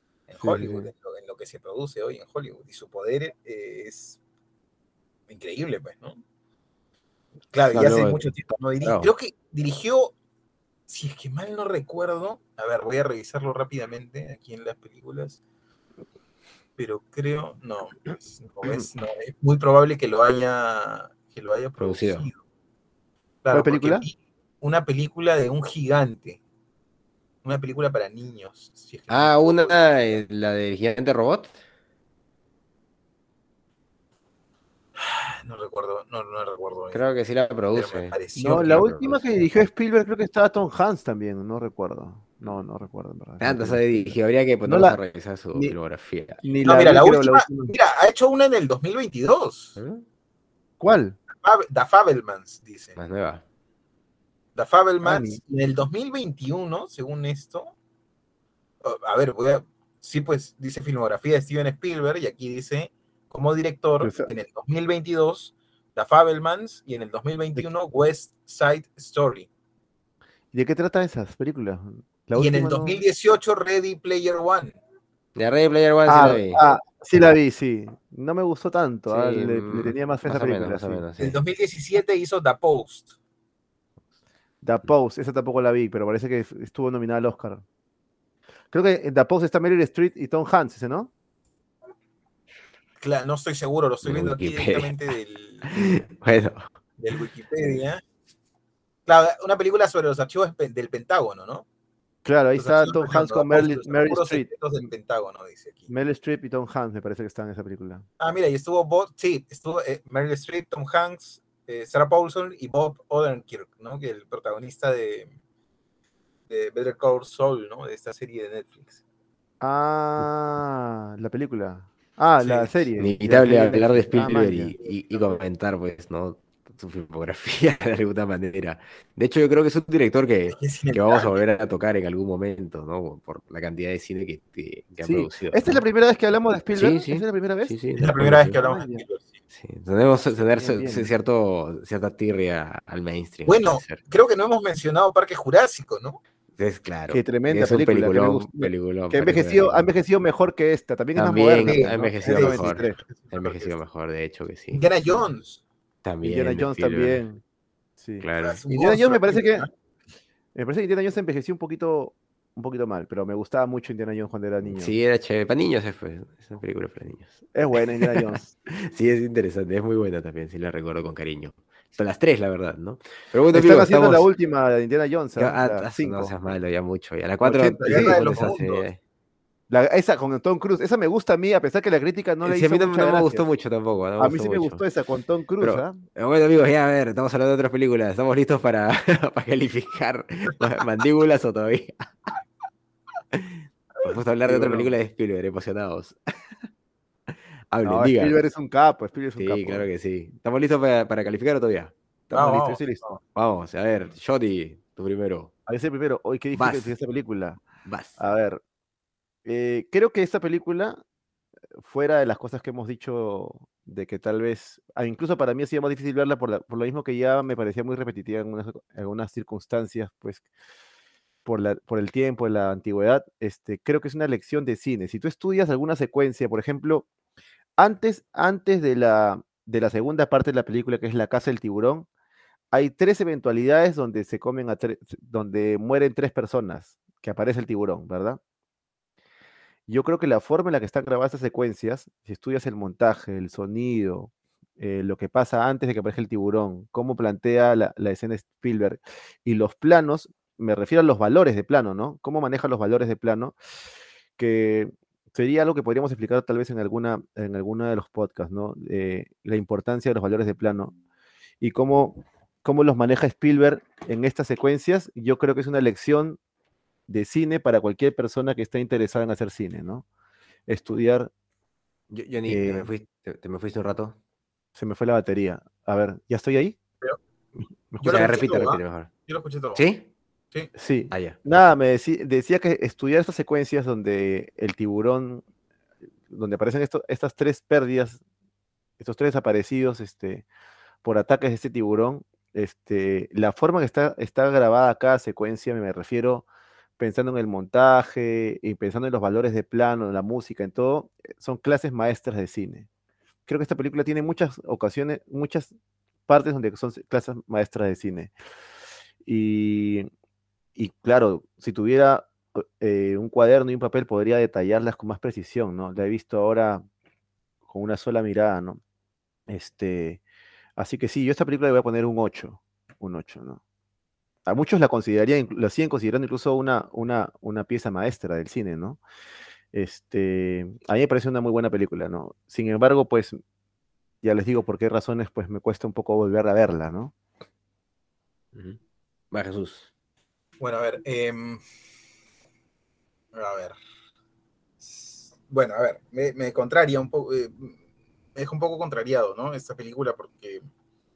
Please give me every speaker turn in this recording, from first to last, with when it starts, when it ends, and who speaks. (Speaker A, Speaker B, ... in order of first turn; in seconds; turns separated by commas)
Speaker A: 0.3-4.2, Speaker B: 0.4-0.9, Speaker A: 5.3-6.2, Speaker A: 7.5-10.1, Speaker C: 7.7-8.2, Speaker C: 8.8-9.1, Speaker A: 10.9-15.4, Speaker A: 16.8-22.4, Speaker C: 21.8-22.3, Speaker A: 23.4-26.4, Speaker B: 23.5-24.1, Speaker A: 27.4-30.2, Speaker C: 29.1-31.5, Speaker A: 35.0-37.0, Speaker C: 36.9-39.2, Speaker A: 37.7-38.8, Speaker B: 38.4-45.0, Speaker C: 43.4-46.4, Speaker B: 46.4-47.7, Speaker A: 46.6-49.8, Speaker C: 49.8-50.0, Speaker B: 50.8-51.2, Speaker A: 51.4-53.0, Speaker C: 53.0-53.4, Speaker A: 54.5-57.7, Speaker B: 55.0-55.4, Speaker A: 58.8-69.5, Speaker B: 64.0-64.3, Speaker B: 70.5-73.0, Speaker A: 72.3-74.8, Speaker C: 75.3-76.6, Speaker B: 76.0-81.0, Speaker C: 79.1-81.4, Speaker A: 81.2-83.1, Speaker B: 84.6-87.6, Speaker B: 88.7-91.1, Speaker A: 93.0-95.7, Speaker C: 94.0-94.9, Speaker C: 95.7-96.7, Speaker A: 97.0-98.0, Speaker A: 99.0-101.6, Speaker B: 102.2-104.5, Speaker A: 102.5-105.9, Speaker B: 105.9-108.0, Speaker A: 108.2-115.3, Speaker A: 116.5-119.0, Speaker B: 119.6-124.7, Speaker A: 122.4-122.7, Speaker C: 123.0-135.8, Speaker A: 124.8-125.4, Speaker A: 130.5-131.4, Speaker B: 135.0-139.0, Speaker C: 136.7-138.6, Speaker A: 138.0-139.3, Speaker C: 139.5-144.0, Speaker B: 140.3-141.1, Speaker A: 143.4-146.2, Speaker C: 146.6-149.9, Speaker B: 147.1-153.0, Speaker C: 151.2-154.9, Speaker A: 151.6-153.8, Speaker A: 154.7-155.6, Speaker C: 156.0-157.2, Speaker B: 156.2-157.4, Speaker B: 158.0-159.7, Speaker C: 158.2-158.6, Speaker A: 158.4-159.7, Speaker B: 160.5-164.9, Speaker C: 164.6-174.2, Speaker B: 167.5-168.5, Speaker B: 173.5-176.3, Speaker C: 175.3-179.0, Speaker B: 177.4-178.6, Speaker A: 177.8-178.8, Speaker B: 179.7-183.4, Speaker C: 182.4-184.8, Speaker B: 184.2-186.0, Speaker C: 185.6-192.3, Speaker C: 193.3-196.2, Speaker B: 194.4-195.0, Speaker C: 197.7-198.4, Speaker B: 197.8-199.9, Speaker C: 199.4-201.9, Speaker B: 202.3-203.2, Speaker A: 202.3-202.8, Speaker C: 203.3-205.5, Speaker B: 205.7-207.6, Speaker C: 206.5-206.9, Speaker C: 207.8-208.2, Speaker B: 208.2-208.6, Speaker B: 209.4-211.0, Speaker B: 211.8-220.4, Speaker B: 221.4-227.1, Speaker B: 227.8-232.1, Speaker B: 232.7-238.4, Speaker B: 239.9-253.5, Speaker B: 254.4-260.9, Speaker B: 261.6-266.4, Speaker B: 267.1-270.0, Speaker B: 270.7-271.3, Speaker C: 272.1-274.1, Speaker B: 272.5-272.9, Speaker B: 274.7-276.8, Speaker B: 277.9-278.7, Speaker A: 278.0-279.8, Speaker C: 278.1-279.1, Speaker C: 279.7-280.0, Speaker B: 280.8-285.4, Speaker C: 281.1-281.4, Speaker B: 286.3-288.2, Speaker B: 289.0-290.4, Speaker B: 291.0-296.4, Speaker B: 297.0-302.9, Speaker B: 303.5-305.7, Speaker B: 306.3-308.3, Speaker B: 309.2-310.1, Speaker B: 310.8-316.8, Speaker B: 317.7-318.8, Speaker B: 319.5-320.2, Speaker B: 320.8-323.6, Speaker B: 324.4-329.0, Speaker B: 329.7-333.4, Speaker B: 334.2-337.1, Speaker C: 338.5-338.8, Speaker C: 339.3-339.9, Speaker A: 340.6-341.6, Speaker A: 343.3-343.8, Speaker A: 344.8-347.8, Speaker A: 348.3-350.6